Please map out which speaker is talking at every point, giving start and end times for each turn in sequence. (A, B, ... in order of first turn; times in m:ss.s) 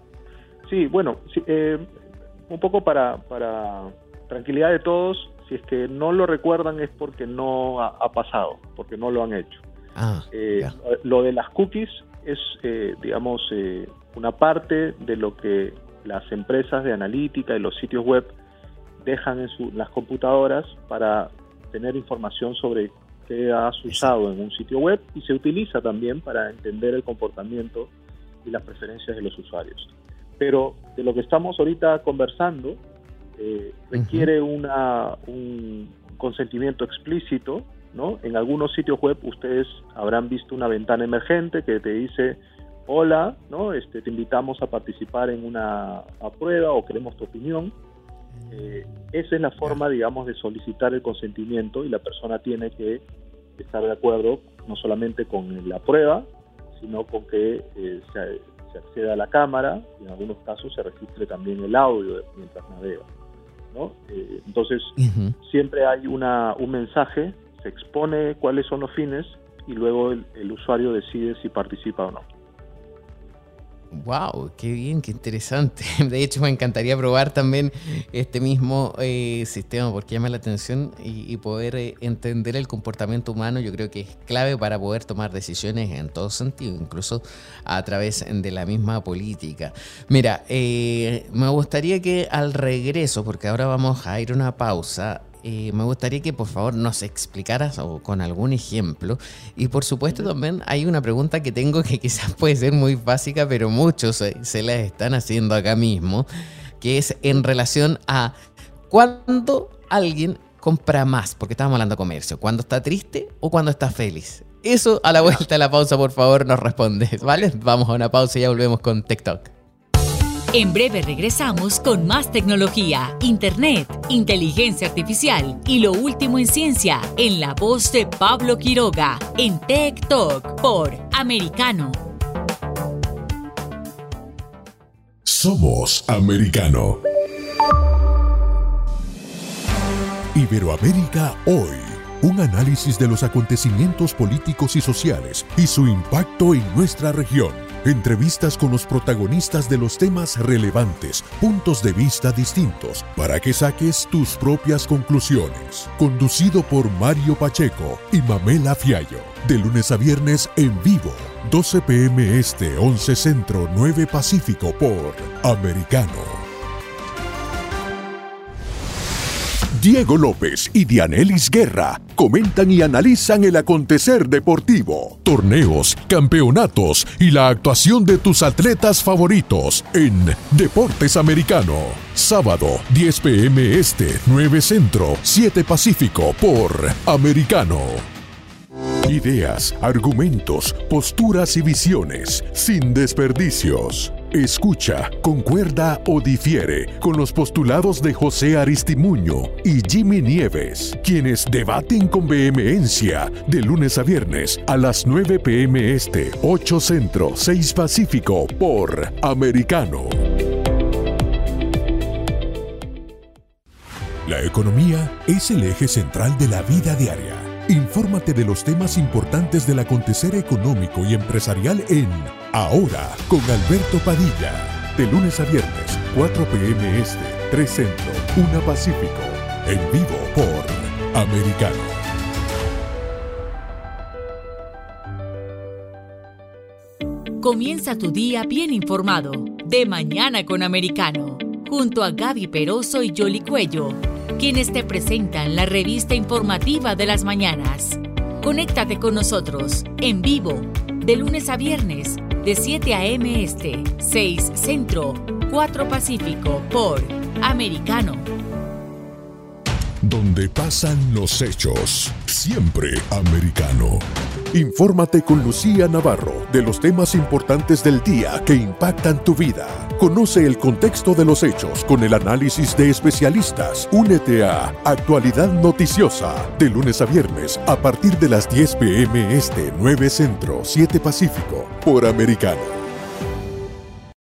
0:00.6-0:09.6 A
0:10.0-0:10.7 B
0:10.3-0:18.3 A
0:19.0-0:27.9 A
0:23.9-0:24.1 B
0:28.4-0:32.8 A
0:33.4-0:47.7 A
0:33.9-0:34.3 B
0:48.4-0:49.1 B
0:48.5-0:53.0 A
0:53.6-1:03.1 A
1:03.7-1:12.2 A
1:05.0-1:05.4 B
1:13.9-1:46.3 B
1:46.8-1:48.3 B
1:48.9-1:59.5 B
2:00.5-2:12.0 C
2:15.2-2:17.0 D
2:20.3-2:46.4 D
2:49.8-3:08.1 D
3:09.1-3:30.2 D
3:34.2-3:52.0 D
3:57.4-4:18.3 C
4:20.0-4:42.8 D